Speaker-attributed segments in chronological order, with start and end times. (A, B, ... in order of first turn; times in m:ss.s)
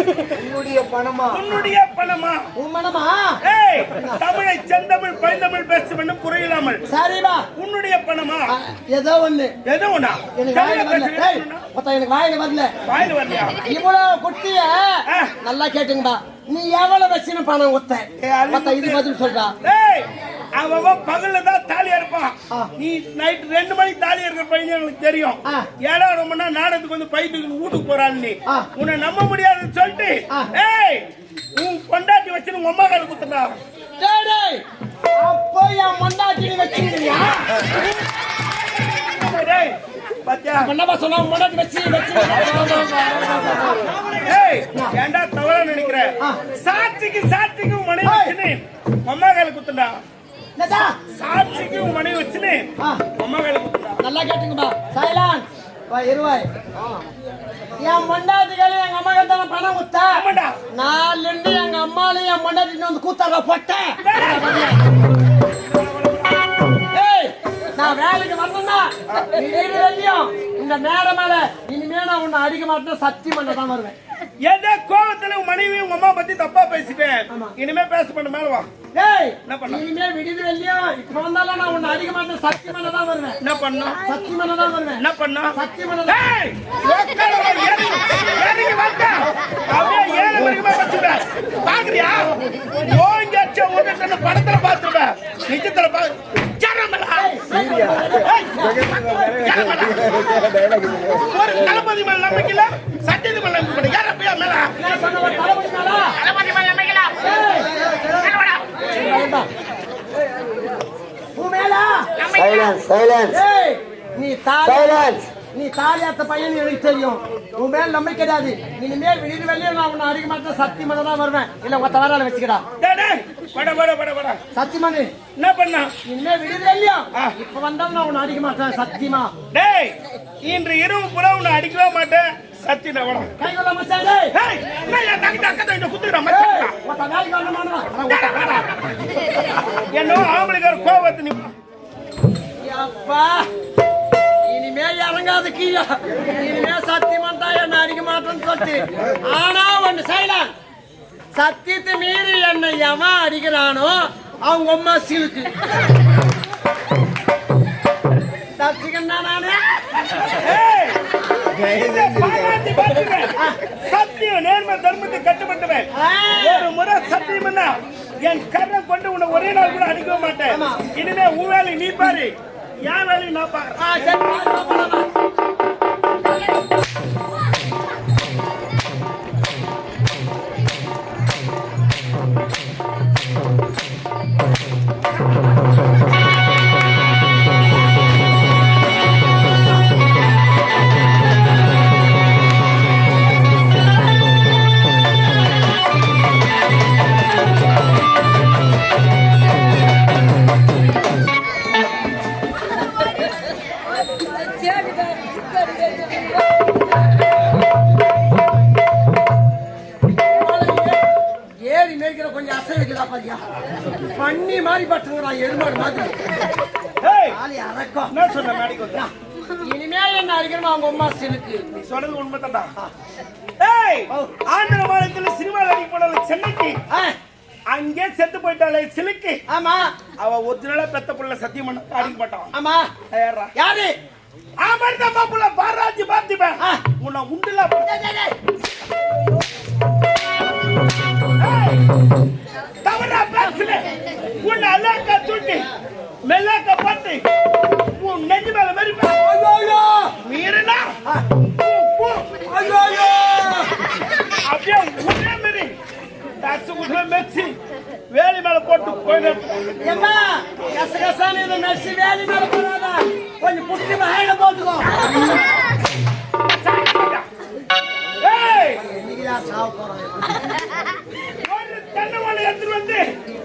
0:00.4-0:01.4 A
0:01.3-0:02.5 B
0:02.6-0:03.4 A
0:03.4-0:06.8 B
0:06.9-0:07.5 A
0:07.6-0:08.5 B
0:08.5-0:09.6 A
0:09.6-0:11.7 B
0:10.4-0:12.7 A
0:12.8-0:13.7 B
0:13.6-0:19.6 A
0:15.1-0:15.4 B
0:18.2-0:19.1 B
0:19.6-0:33.6 B
0:34.0-0:34.6 A
0:35.2-0:37.7 A
0:38.6-0:40.7 B
0:40.6-0:43.9 A
0:44.1-0:50.0 B
0:48.0-0:48.4 A
0:50.6-0:51.0 A
0:51.1-0:54.0 B
0:52.8-0:53.0 A
0:54.0-0:56.5 A
0:57.8-1:04.8 A
1:00.1-1:00.6 B
1:04.0-1:04.8 B
1:05.7-1:06.5 B
1:06.9-1:14.0 A
1:09.1-1:09.3 B
1:14.4-1:18.7 B
1:18.9-1:23.4 A
1:19.5-1:19.8 B
1:23.4-1:24.1 B
1:24.0-1:25.0 A
1:25.0-1:25.6 B
1:25.5-1:26.2 A
1:26.1-1:37.3 B
1:37.1-1:38.9 A
1:38.2-1:40.3 B
1:41.1-1:44.8 B
1:44.8-1:46.2 A
1:46.2-1:47.4 C
1:47.2-1:48.1 A
1:48.1-1:48.7 C
1:48.8-1:49.5 A
1:51.4-1:52.1 A
1:52.2-1:53.3 C
1:53.3-2:02.6 A
1:54.8-1:55.2 C
2:02.8-2:04.4 B
2:04.5-2:05.1 A
2:05.4-2:06.0 B
2:06.0-2:09.3 A
2:09.5-2:13.3 B
2:13.4-2:14.3 A
2:14.4-2:16.8 B
2:16.3-2:18.7 A
2:18.1-2:18.7 B
2:19.9-2:21.5 B
2:22.6-2:23.5 A
2:24.5-2:30.5 A
2:31.3-2:35.5 A
2:38.6-2:39.8 A
2:40.1-2:41.0 B
2:41.5-2:54.4 B
2:46.0-2:46.7 A
2:50.5-2:50.9 A
2:53.8-2:55.1 A
3:24.4-3:26.3 A
3:30.1-3:31.1 A
3:31.6-3:33.4 A
3:34.0-3:36.2 A
3:37.0-3:37.4 B
3:37.3-3:38.1 A
3:38.1-3:39.1 B
3:39.0-3:41.7 A
3:41.7-3:42.7 B
3:43.6-3:46.8 B
3:44.1-3:44.4 A
3:47.7-3:49.4 B
3:49.5-3:49.9 A
3:50.2-3:52.5 B
3:52.5-3:52.9 A
3:53.1-3:53.5 B
3:53.6-3:53.9 A
3:54.6-3:58.1 B
3:57.9-3:58.3 A
4:01.4-4:01.9 B
4:02.8-4:03.8 B
4:04.4-4:05.7 B
4:06.3-4:07.2 B
4:07.9-4:09.2 B
4:09.1-4:10.2 A
4:10.2-4:10.9 B
4:11.1-4:13.7 A
4:14.4-4:15.8 B
4:16.4-4:17.6 B
4:18.1-4:19.8 B
4:19.8-4:25.0 A
4:26.6-4:27.3 B
4:28.2-4:28.8 B
4:28.8-4:30.4 A
4:31.4-4:33.1 B